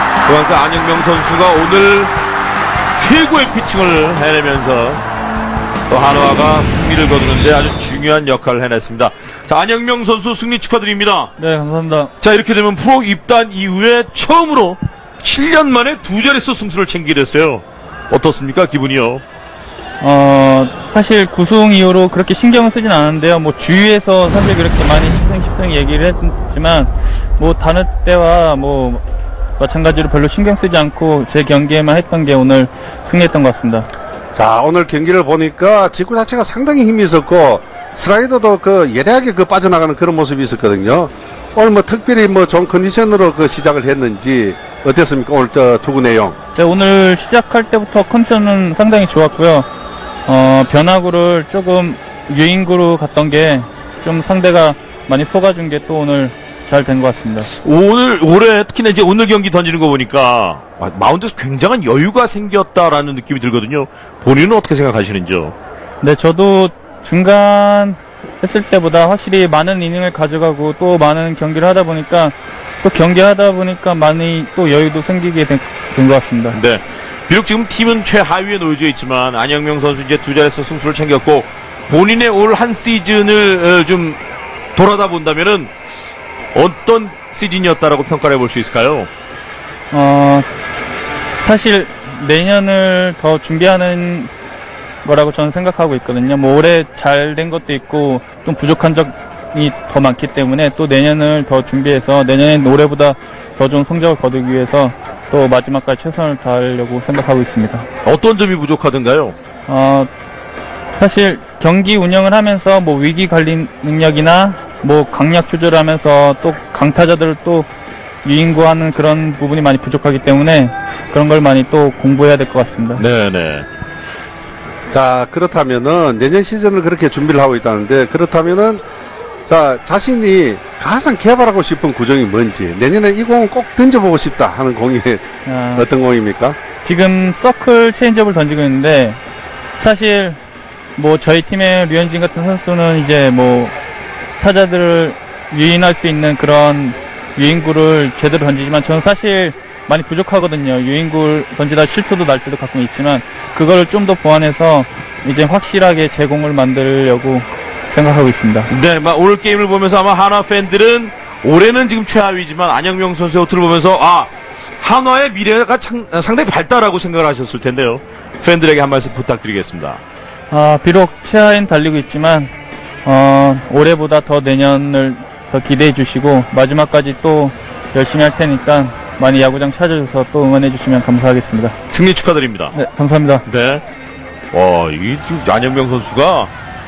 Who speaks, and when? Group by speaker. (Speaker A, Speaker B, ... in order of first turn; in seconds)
Speaker A: 0.2-2.1, 2.9-5.0, 5.9-11.3, 12.2-19.2, 57.4-65.5, 76.5-84.2, 84.7-85.7, 86.5-89.1, 108.0-109.3, 123.0-123.7, 158.7-170.0, 181.9-182.8, 183.4-183.8, 184.5-186.5
Speaker B: 11.4-12.1, 20.0-29.0, 29.6-33.9, 46.5-49.6, 50.3-57.4, 66.0-76.6, 89.9-90.5, 91.4-94.3, 95.0-107.8, 109.7-110.1, 111.0-117.7, 118.2-123.0, 135.4-135.9, 136.8-139.2, 139.8-140.4, 141.0-143.7, 144.4-158.7, 170.5-172.5, 173.0-181.8, 182.7-183.4
Speaker C: 34.3-46.4, 124.9-128.8, 129.5-135.2, 135.8-136.6